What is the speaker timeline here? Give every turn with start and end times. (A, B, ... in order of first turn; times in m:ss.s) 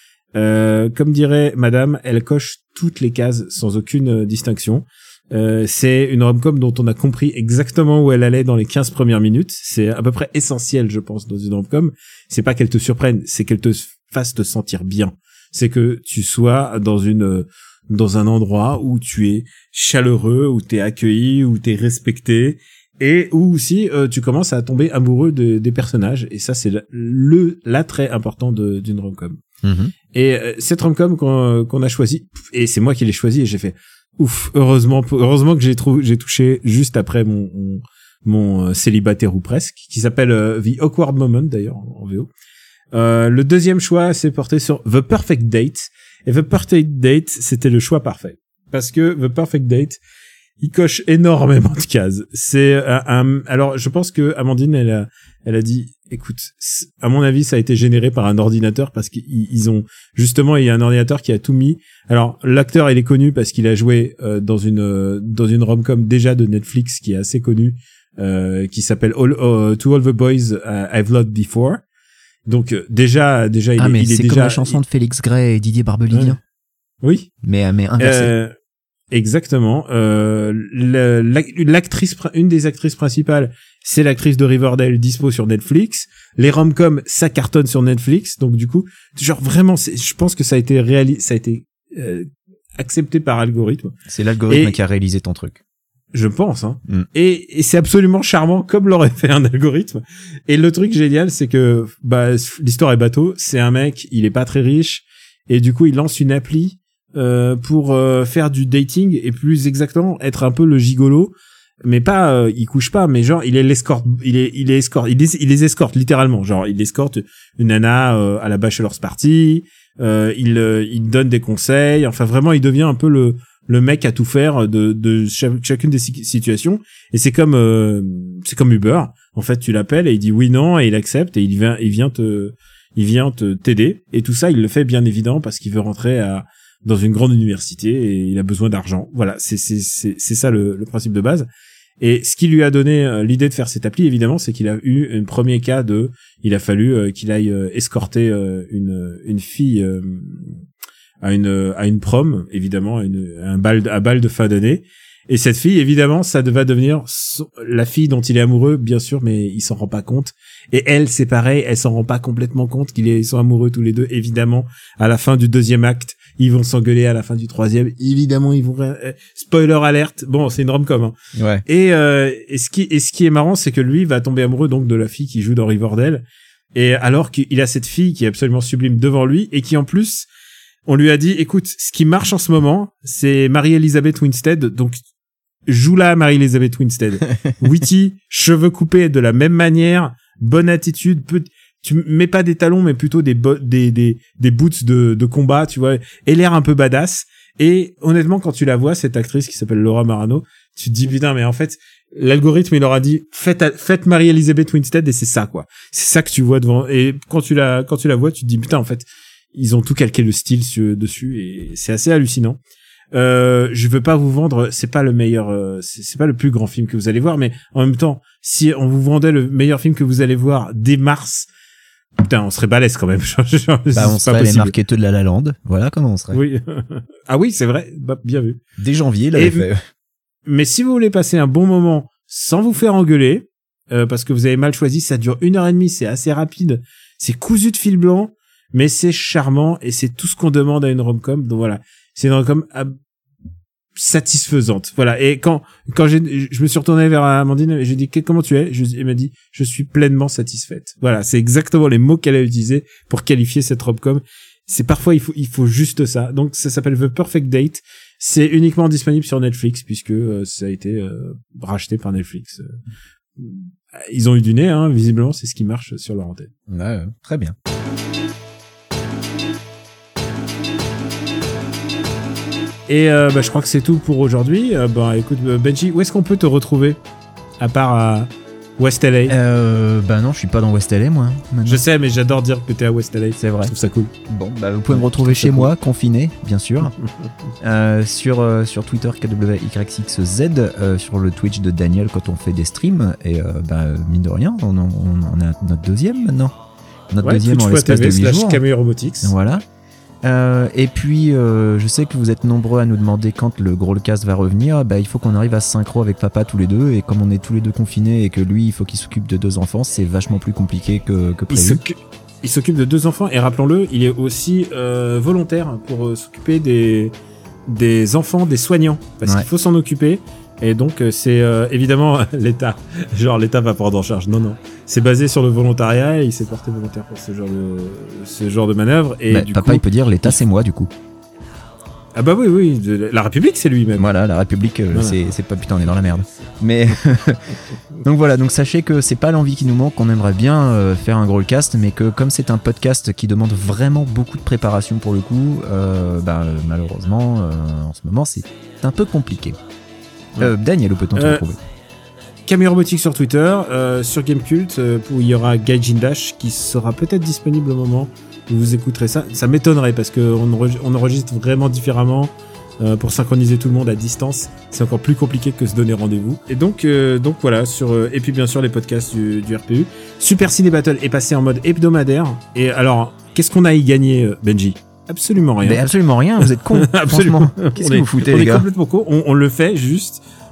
0:00.3-0:29.4 A
0:29.6-0:29.9 B
0:30.1-0:42.3 A
0:42.9-0:50.0 A
0:50.6-1:11.8 A
1:12.5-1:14.8 A
1:13.8-1:16.4 B
1:16.1-1:16.4 A
1:17.0-1:17.3 A
1:17.4-1:18.3 B
1:18.0-1:18.5 A
1:19.1-1:33.9 A
1:34.1-1:35.6 B
1:34.5-1:34.8 A
1:36.1-2:21.5 A
2:22.0-2:30.6 A
2:31.2-2:51.1 A
2:51.3-2:51.6 B
2:51.6-3:00.3 A
3:00.9-3:05.0 A
3:05.7-3:32.6 A
3:33.1-3:41.5 A
3:42.2-3:44.7 A
3:43.9-3:46.4 B
3:46.3-3:48.6 A
3:48.8-3:49.8 B
3:49.3-3:49.7 A
3:50.4-4:02.9 A
4:04.0-4:22.7 A
4:23.4-4:26.5 A
4:26.7-4:27.5 B
4:32.9-4:37.0 A
4:37.6-4:39.4 A
4:39.3-4:41.8 B
4:41.6-4:44.1 A
4:43.4-4:43.7 B
4:44.3-4:46.9 B
4:44.9-4:45.7 A
4:47.6-4:56.5 B
4:57.1-4:58.6 B
4:57.2-4:59.3 A
4:59.2-4:59.6 B
5:00.2-5:11.8 B
5:11.5-5:17.1 A
5:17.7-5:30.4 A
5:29.3-5:30.9 B
5:32.1-5:34.1 A
5:34.0-5:49.6 B
5:34.9-5:35.2 A
5:50.4-5:51.6 B
5:51.1-5:51.4 A
5:52.4-6:15.9 A
6:15.6-6:18.7 B
6:16.4-6:20.2 A